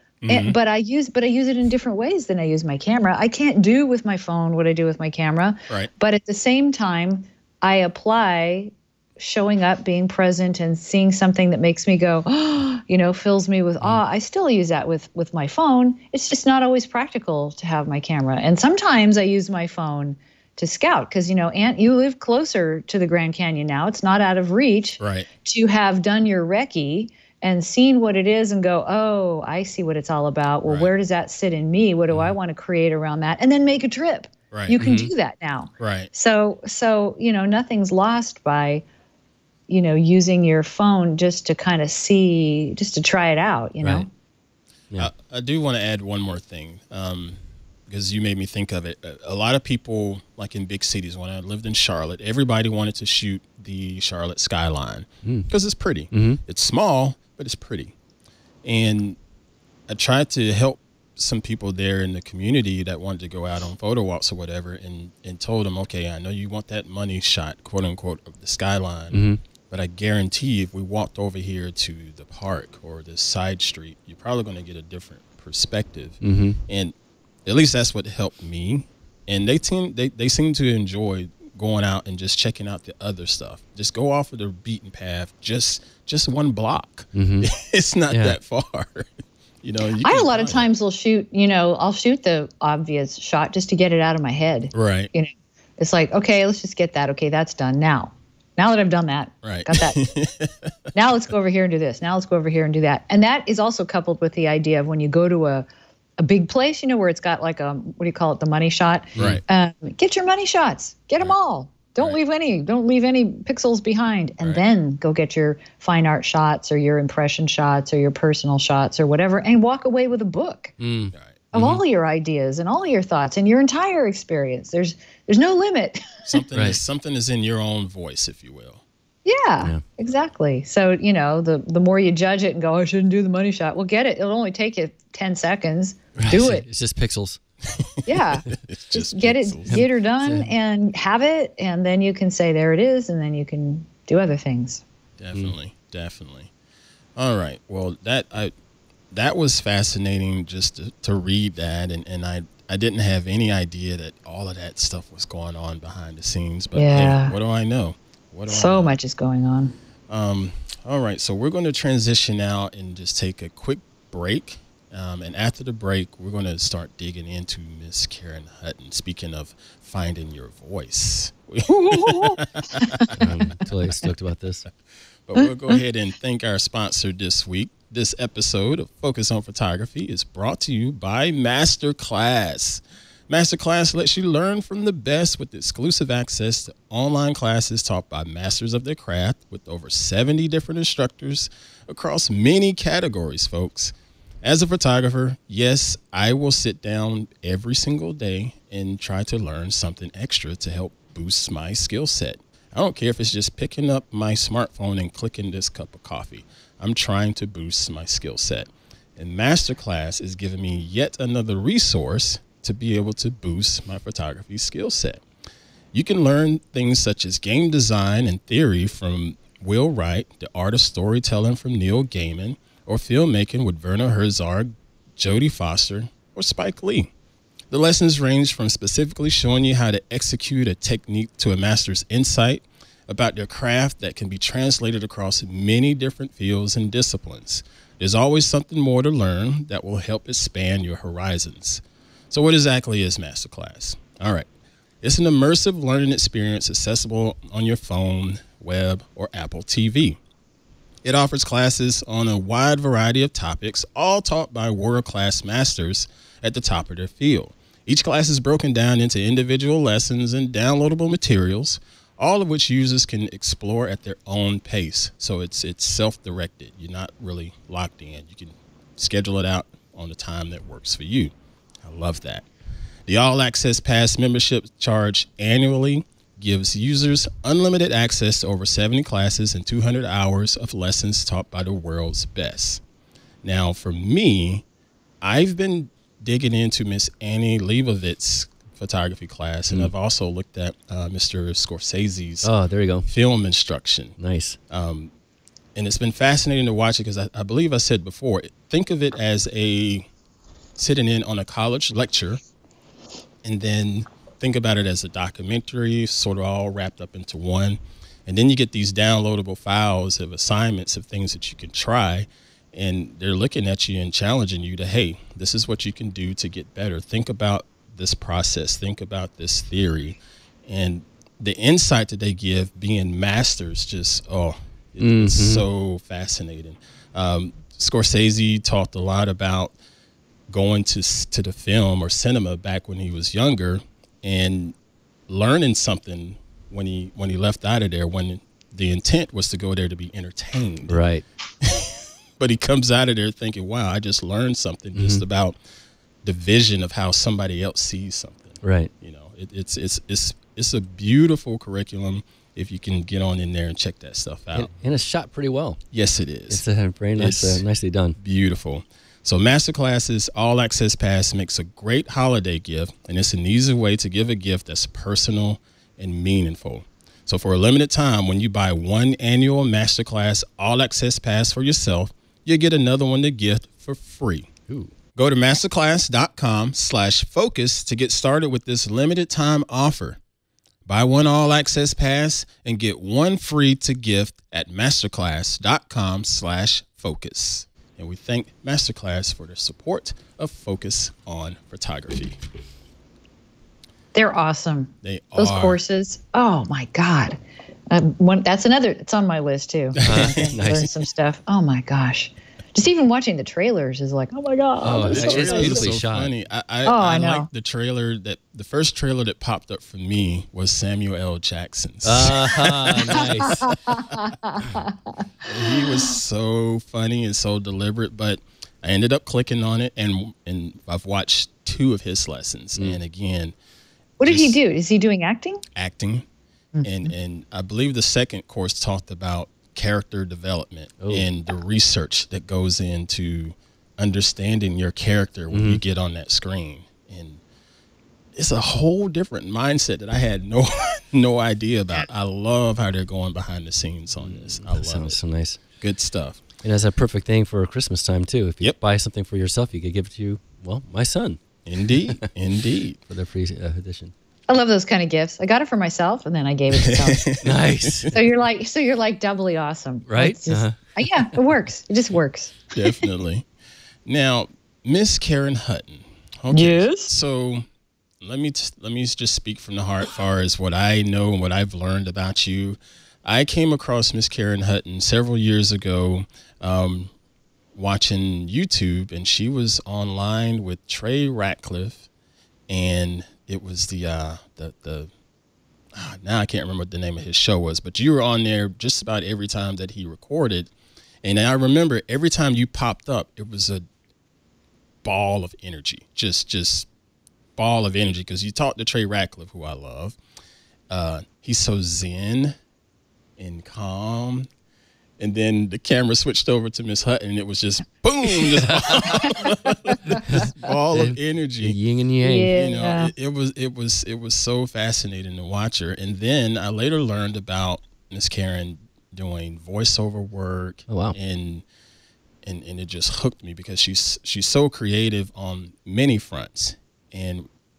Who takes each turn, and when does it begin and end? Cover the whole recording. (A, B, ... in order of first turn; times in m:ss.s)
0:00.2-0:00.6 A
0:00.3-0:38.8 B
0:25.0-0:25.3 A
0:30.6-0:30.9 A
0:34.5-0:34.8 A
0:34.8-0:35.1 C
0:35.8-0:36.1 A
0:39.7-0:44.1 B
0:43.8-0:44.1 C
0:45.0-0:57.9 A
0:55.2-0:55.5 C
0:56.1-0:56.4 C
0:58.6-0:59.2 A
0:59.9-1:16.9 A
1:09.1-1:09.4 C
1:16.2-1:16.6 C
1:17.4-1:29.1 A
1:27.1-1:27.5 C
1:28.1-1:28.4 C
1:29.6-1:30.7 A
1:30.0-1:40.0 B
1:34.7-1:35.1 A
1:39.4-1:40.7 A
1:40.9-1:45.6 B
1:46.2-2:00.8 B
1:49.2-1:49.4 C
1:49.2-1:49.4 A
2:00.8-2:01.8 C
2:01.1-2:01.5 A
2:01.5-2:06.4 B
2:06.2-2:08.8 A
2:09.2-2:16.6 B
2:16.2-2:17.4 C
2:17.8-2:19.8 A
2:18.1-2:24.8 B
2:19.7-2:20.5 C
2:25.2-2:26.5 A
2:27.2-2:28.5 A
2:29.1-2:38.9 A
2:36.7-2:37.4 B
2:38.5-2:39.7 B
2:40.1-2:53.2 A
2:51.7-2:52.9 B
2:53.1-2:54.6 C
2:55.3-3:35.2 A
3:35.9-3:47.1 A
3:47.7-4:04.5 A
4:05.0-4:10.2 A
4:11.0-4:32.5 A
4:33.1-4:42.8 A
4:43.4-4:44.6 A
4:45.2-4:52.5 A
4:52.4-4:53.1 C
4:53.1-4:54.2 A
4:54.2-4:54.6 C
4:54.7-4:55.1 A
4:55.8-5:00.1 A
5:00.8-5:02.4 A
5:03.4-5:29.8 A
5:25.0-5:25.7 C
5:30.5-5:34.8 A
5:35.3-5:41.0 A
5:40.9-5:41.2 C
5:41.6-5:45.6 A
5:44.9-5:45.2 C
5:46.2-5:54.7 A
5:48.6-5:48.9 C
5:54.5-5:55.8 C
5:55.9-5:56.6 A
5:56.5-5:58.2 C
5:57.2-5:57.6 A
5:58.2-6:14.5 A
6:15.1-6:20.2 A
6:20.9-6:32.4 A
6:34.1-6:37.4 B
6:35.0-6:35.8 A
6:37.9-6:45.9 B
6:40.0-6:40.6 A
6:40.1-6:40.9 C
6:44.8-6:46.3 C
6:45.0-6:54.2 A
6:46.9-6:47.5 B
6:52.0-6:53.6 C
6:53.5-6:55.9 B
6:55.5-7:03.6 A
7:04.2-7:05.6 B
7:04.2-7:04.6 A
7:05.8-7:06.2 A
7:06.7-7:07.1 B
7:06.8-7:17.4 A
7:11.0-7:11.3 C
7:15.5-7:15.8 C
7:18.4-7:25.2 A
7:24.2-7:25.6 C
7:25.8-7:26.4 A
7:26.6-7:32.2 C
7:31.6-7:33.0 A
7:33.1-7:34.1 C
7:34.5-7:37.3 B
7:36.8-7:38.1 A
7:37.4-7:38.3 C
7:38.1-7:42.9 B
7:40.1-7:41.4 C
7:42.7-7:43.5 A
7:44.1-7:47.6 A
7:46.5-7:47.1 B
7:48.2-7:57.1 A
7:57.8-8:02.1 A
8:02.7-8:05.1 A
8:05.9-8:10.7 A
8:11.2-8:13.8 A
8:15.0-8:16.9 A
8:17.6-8:20.2 A
8:20.9-8:22.6 A
8:23.4-8:24.5 A
8:25.2-8:31.8 A
8:30.3-8:32.6 C
8:32.2-8:33.1 B
8:32.5-8:41.6 A
8:40.9-8:41.2 C
8:42.4-8:47.5 A